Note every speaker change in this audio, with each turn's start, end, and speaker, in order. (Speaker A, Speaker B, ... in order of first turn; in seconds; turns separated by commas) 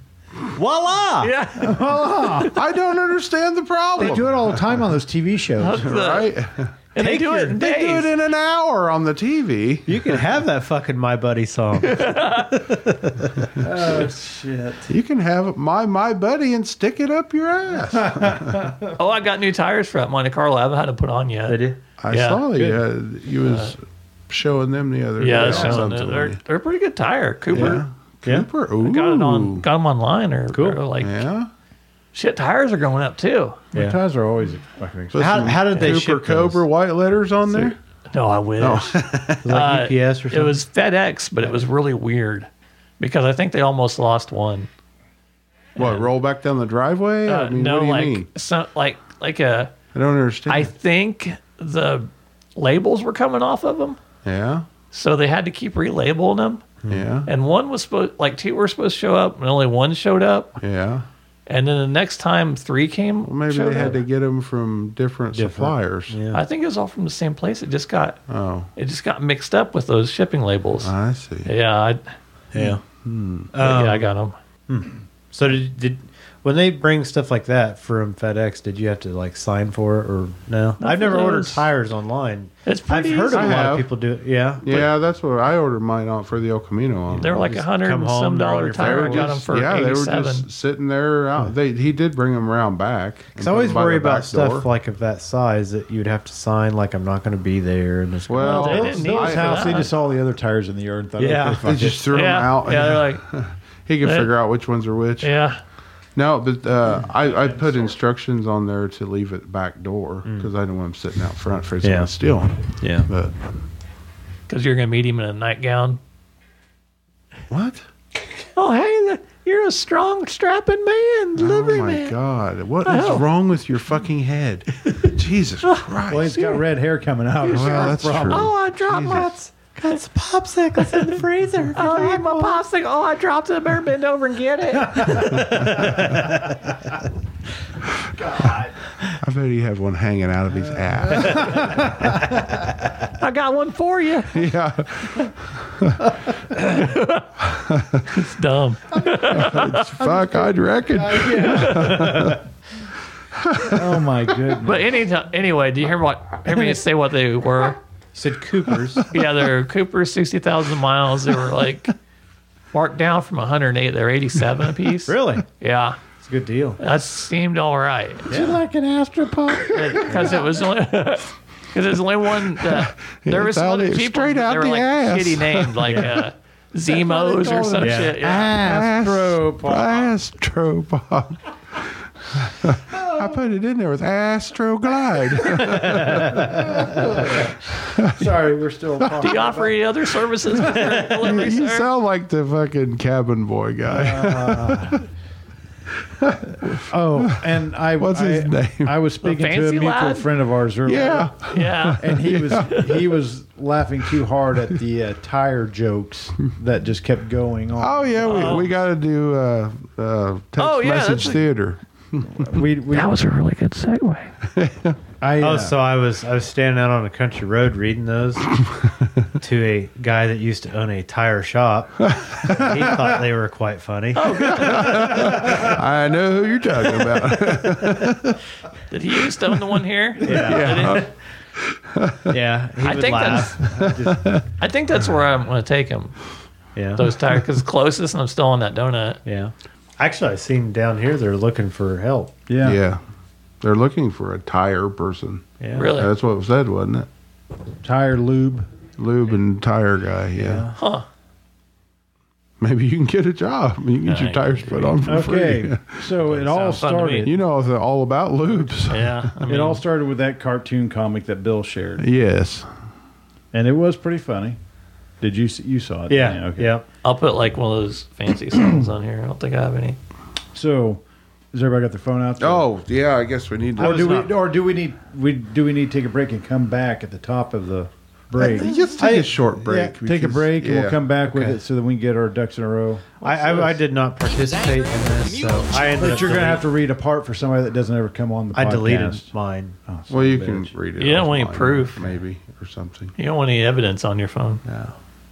Speaker A: 0.5-1.3, Speaker B: 1.2-2.5, Speaker C: 1.6-2.5, Speaker D: 2.5-4.8, Speaker C: 4.0-5.8, Speaker B: 5.6-6.3, Speaker D: 5.7-6.8, Speaker B: 6.9-8.1, Speaker A: 7.0-7.6, Speaker D: 7.6-10.2, Speaker A: 9.9-13.6, Speaker B: 11.8-12.6, Speaker C: 13.6-14.9, Speaker D: 14.9-18.7, Speaker C: 17.9-18.9, Speaker B: 19.0-21.6, Speaker A: 21.5-21.8, Speaker D: 22.0-26.4, Speaker B: 22.1-22.5, Speaker B: 23.4-23.7, Speaker B: 25.2-27.8, Speaker C: 25.4-25.8, Speaker D: 27.5-29.7, Speaker B: 28.8-31.3, Speaker A: 30.5-30.8, Speaker D: 31.0-31.5, Speaker B: 32.1-33.6, Speaker A: 33.7-34.0, Speaker C: 33.7-35.6, Speaker D: 35.1-37.8, Speaker A: 35.2-36.6, Speaker B: 35.7-36.0, Speaker B: 38.1-39.0, Speaker D: 38.6-39.6, Speaker A: 39.5-40.6, Speaker B: 39.5-42.5, Speaker B: 43.0-44.7, Speaker B: 45.8-46.1, Speaker D: 45.8-48.3, Speaker B: 47.3-49.8, Speaker D: 49.9-50.7, Speaker B: 50.5-54.0, Speaker D: 54.2-54.7, Speaker B: 54.9-56.6, Speaker A: 56.8-57.1, Speaker D: 56.9-57.3, Speaker B: 57.3-60.6, Speaker D: 60.6-61.1, Speaker B: 61.5-64.0, Speaker D: 63.2-66.2, Speaker A: 65.3-66.4, Speaker B: 66.3-68.2, Speaker D: 68.3-68.7, Speaker B: 68.8-70.9, Speaker D: 70.8-71.5, Speaker B: 71.5-72.1, Speaker A: 72.5-72.8, Speaker D: 73.0-73.5, Speaker A: 73.5-74.1, Speaker B: 73.6-74.3, Speaker A: 74.7-84.9, Speaker B: 80.8-81.7, Speaker B: 82.7-83.8, Speaker D: 83.3-83.9, Speaker D: 84.6-87.5, Speaker B: 87.1-90.5, Speaker A: 87.2-89.5, Speaker D: 88.8-94.7, Speaker A: 93.4-99.3, Speaker D: 98.3-99.9, Speaker B: 98.4-99.9, Speaker C: 98.5-102.2, Speaker A: 101.2-101.8, Speaker D: 101.6-105.3, Speaker B: 102.1-103.2, Speaker B: 104.0-104.3, Speaker B: 105.2-105.6, Speaker D: 106.2-113.3, Speaker C: 107.1-108.0, Speaker A: 110.2-110.5, Speaker A: 111.8-112.1, Speaker A: 112.8-113.1, Speaker B: 114.5-116.0, Speaker D: 117.5-117.9, Speaker B: 118.6-122.2, Speaker D: 121.4-126.4, Speaker B: 122.9-123.3, Speaker B: 125.7-126.6, Speaker C: 126.1-128.5, Speaker D: 127.4-129.3, Speaker B: 127.5-129.3, Speaker A: 128.9-132.6, Speaker B: 130.8-131.2, Speaker B: 131.7-136.1, Speaker D: 135.3-136.2, Speaker A: 135.8-136.3, Speaker C: 138.2-138.8, Speaker D: 139.1-142.0, Speaker C: 141.2-142.6, Speaker B: 143.1-144.4, Speaker D: 144.3-146.1, Speaker B: 146.5-147.4, Speaker D: 147.4-148.3, Speaker B: 148.1-150.1, Speaker D: 149.2-152.4, Speaker C: 150.1-152.3, Speaker B: 151.5-152.1, Speaker D: 153.3-154.2, Speaker C: 153.6-154.9, Speaker B: 154.6-157.8, Speaker A: 158.2-159.1, Speaker D: 158.7-159.0, Speaker B: 159.1-161.9, Speaker B: 162.7-166.0, Speaker A: 165.1-165.4, Speaker A: 166.2-166.8, Speaker B: 166.8-168.3, Speaker A: 168.3-168.6, Speaker C: 168.3-170.4, Speaker B: 169.7-178.6, Speaker D: 172.4-176.3, Speaker A: 175.8-176.2, Speaker C: 176.9-180.2, Speaker A: 177.8-178.2, Speaker D: 178.2-188.3, Speaker C: 182.9-183.3, Speaker A: 185.7-186.8, Speaker C: 186.5-189.8, Speaker B: 189.2-191.9, Speaker D: 190.7-195.0, Speaker C: 193.9-195.0, Speaker D: 196.1-198.9, Speaker C: 196.7-201.3, Speaker B: 199.2-200.3, Speaker D: 200.9-202.9, Speaker B: 200.9-203.1, Speaker C: 202.0-208.7, Speaker D: 207.8-212.4, Speaker B: 208.2-208.7, Speaker B: 210.6-211.5, Speaker C: 212.3-213.1, Speaker B: 212.9-214.3, Speaker D: 214.5-215.0, Speaker C: 215.2-215.8, Speaker A: 215.4-218.6, Speaker D: 218.6-219.1, Speaker A: 219.4-225.8, Speaker D: 222.1-223.0, Speaker B: 224.2-225.5, Speaker D: 224.4-228.4, Speaker B: 228.9-231.1, Speaker D: 229.6-232.4, Speaker A: 230.2-231.1, Speaker A: 232.3-234.2, Speaker B: 232.8-233.7, Speaker D: 233.7-234.4, Speaker B: 234.6-236.2, Speaker A: 236.8-237.1, Speaker B: 236.9-239.2, Speaker A: 239.2-242.3, Speaker C: 242.5-242.8, Speaker D: 242.6-243.0, Speaker D: 243.6-247.1, Speaker A: 245.6-245.9, Speaker B: 245.8-246.1, Speaker C: 247.8-248.7, Speaker D: 249.0-250.7, Speaker A: 250.4-250.7, Speaker B: 250.8-251.1, Speaker D: 252.6-256.1, Speaker B: 254.1-255.0, Speaker C: 255.1-257.3, Speaker B: 256.4-257.3, Speaker D: 257.2-259.3, Speaker B: 258.9-259.8, Speaker C: 259.5-262.1, Speaker D: 262.0-262.7, Speaker C: 263.5-264.6, Speaker C: 265.2-266.7, Speaker A: 266.1-266.9, Speaker B: 267.0-270.0, Speaker C: 270.5-271.0, Speaker C: 271.5-272.7, Speaker D: 272.4-274.2, Speaker A: 273.8-274.3, Speaker C: 273.8-278.7, Speaker D: 278.4-281.0, Speaker A: 278.6-279.9, Speaker C: 279.9-283.8, Speaker A: 281.3-281.6, Speaker A: 283.2-286.7, Speaker C: 286.0-289.3, Speaker A: 288.5-289.8, Speaker C: 289.9-290.7, Speaker D: 290.1-293.1, Speaker B: 291.0-292.1, Speaker B: 293.2-294.6, Speaker A: 294.7-294.9